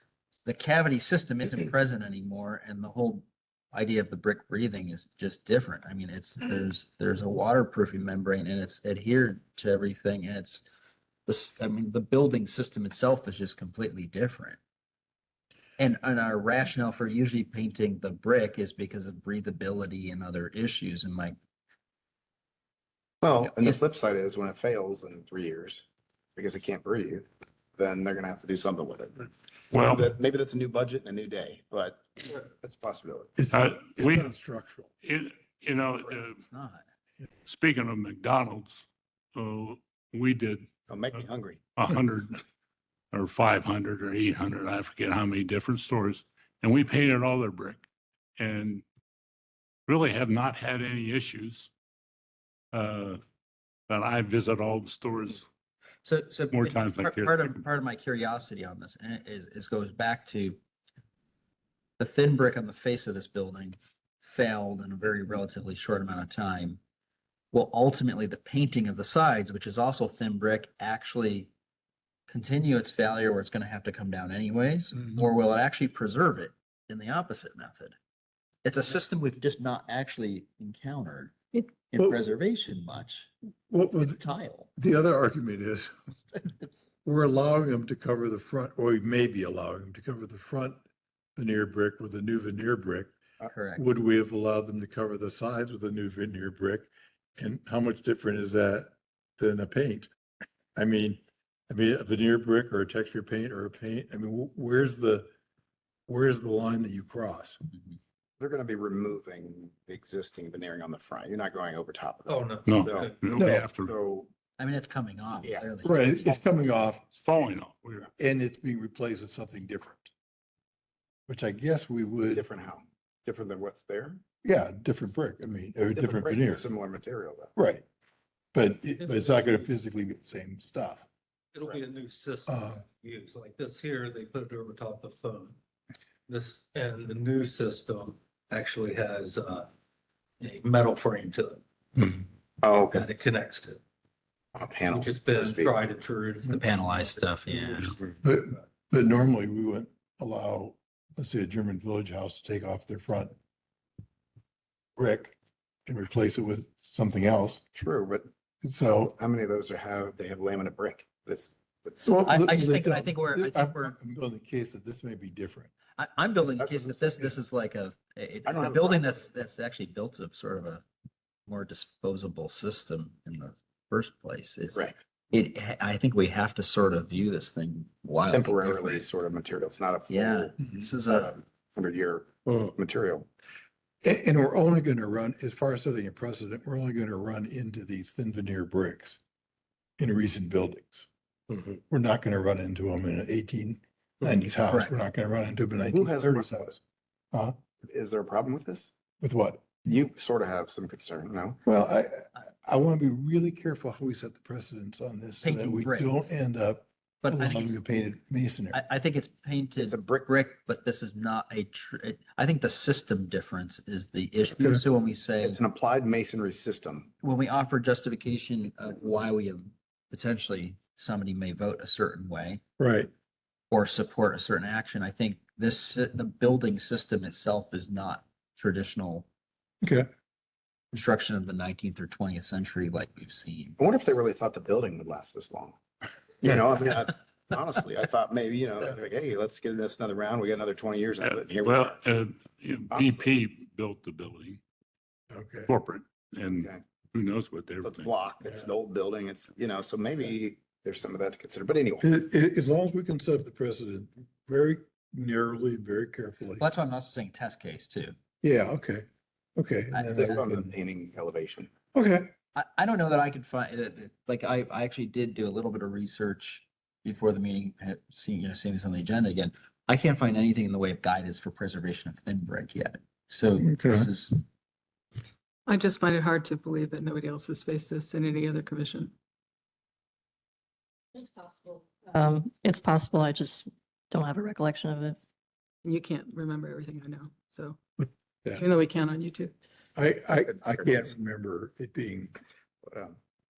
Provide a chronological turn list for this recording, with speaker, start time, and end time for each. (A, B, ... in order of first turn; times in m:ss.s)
0:00.4-0:10.6 A
0:11.3-0:14.6 A
0:15.8-0:21.4 A
0:23.2-0:25.8 B
0:23.4-0:23.8 A
0:26.4-0:33.4 B
0:29.7-0:30.1 C
0:33.4-0:34.9 D
0:33.5-0:34.3 C
0:35.0-0:36.4 C
0:36.0-0:36.8 A
0:37.5-0:38.8 C
0:39.4-0:40.7 C
0:40.9-0:41.6 B
0:41.8-0:42.4 C
0:43.1-0:47.8 C
0:48.4-0:48.8 C
0:49.9-0:51.7 C
0:52.7-0:53.2 C
0:53.9-0:55.5 C
0:56.0-1:00.6 A
0:56.5-0:57.6 C
1:02.0-1:06.8 A
1:07.5-1:11.5 A
1:12.3-1:18.0 A
1:18.6-1:23.3 A
1:23.7-1:24.2 D
1:23.9-1:24.7 A
1:24.8-1:25.9 D
1:26.3-1:26.9 A
1:27.0-1:30.8 D
1:31.4-1:33.2 D
1:33.5-1:33.8 A
1:33.8-1:40.1 D
1:40.8-1:45.3 D
1:46.1-1:47.6 D
1:48.4-1:54.3 B
1:52.3-1:53.2 E
1:52.7-1:53.9 C
1:53.4-1:53.7 D
1:54.6-1:56.3 A
1:55.4-1:55.7 B
1:55.8-1:57.1 D
1:57.1-1:58.1 C
1:58.2-2:00.1 D
2:01.3-2:02.4 D
2:02.3-2:04.2 B
2:04.4-2:06.7 D
2:06.0-2:07.5 B
2:07.6-2:07.8 D
2:08.5-2:11.1 D
2:11.5-2:15.6 E
2:12.5-2:12.8 D
2:16.3-2:19.7 E
2:20.4-2:22.2 E
2:22.6-2:23.1 B
2:22.8-2:23.8 E
2:24.6-2:25.8 B
2:24.8-2:26.6 E
2:26.4-2:28.0 A
2:27.5-2:27.8 E
2:28.2-2:33.4 D
2:35.0-2:37.6 D
2:37.8-2:38.3 B
2:38.6-2:39.2 D
2:39.2-2:42.2 B
2:42.0-2:45.7 D
2:42.3-2:44.0 A
2:46.0-2:50.8 A
2:46.6-2:47.4 B
2:48.5-2:49.3 B
2:51.5-2:59.0 A
2:58.3-3:03.3 B
3:00.1-3:01.3 A
3:04.0-3:09.2 D
3:10.0-3:11.1 D
3:11.6-3:16.8 D
3:14.7-3:15.0 A
3:15.8-3:16.8 B
3:17.8-3:18.9 B
3:19.2-3:19.8 D
3:19.8-3:21.6 B
3:21.6-3:28.8 D
3:25.4-3:26.1 A
3:27.2-3:27.8 A
3:28.7-3:35.6 A
3:29.8-3:30.3 B
3:34.6-3:34.8 D
3:35.4-3:37.1 B
3:37.2-3:42.6 A
3:42.8-3:43.1 D
3:43.7-3:49.3 A
3:49.8-3:50.1 D
3:50.9-3:53.8 A
3:53.8-3:55.8 B
3:56.4-4:02.0 B
4:01.2-4:04.6 C
4:02.9-4:03.4 B
4:05.3-4:05.7 D
4:05.7-4:08.1 C
4:06.5-4:06.8 B
4:07.8-4:12.1 B
4:12.0-4:16.6 D
4:16.6-4:18.2 A
4:18.4-4:20.7 D
4:19.9-4:20.4 A
4:20.2-4:21.7 B
4:21.9-4:22.3 D
4:22.6-4:34.4 A
4:33.6-4:34.1 D
4:35.7-4:39.1 F
4:41.1-4:45.2 G
4:45.8-4:47.8 F
4:48.5-4:49.5 F
4:50.0-4:52.3 D
4:52.8-4:53.2 B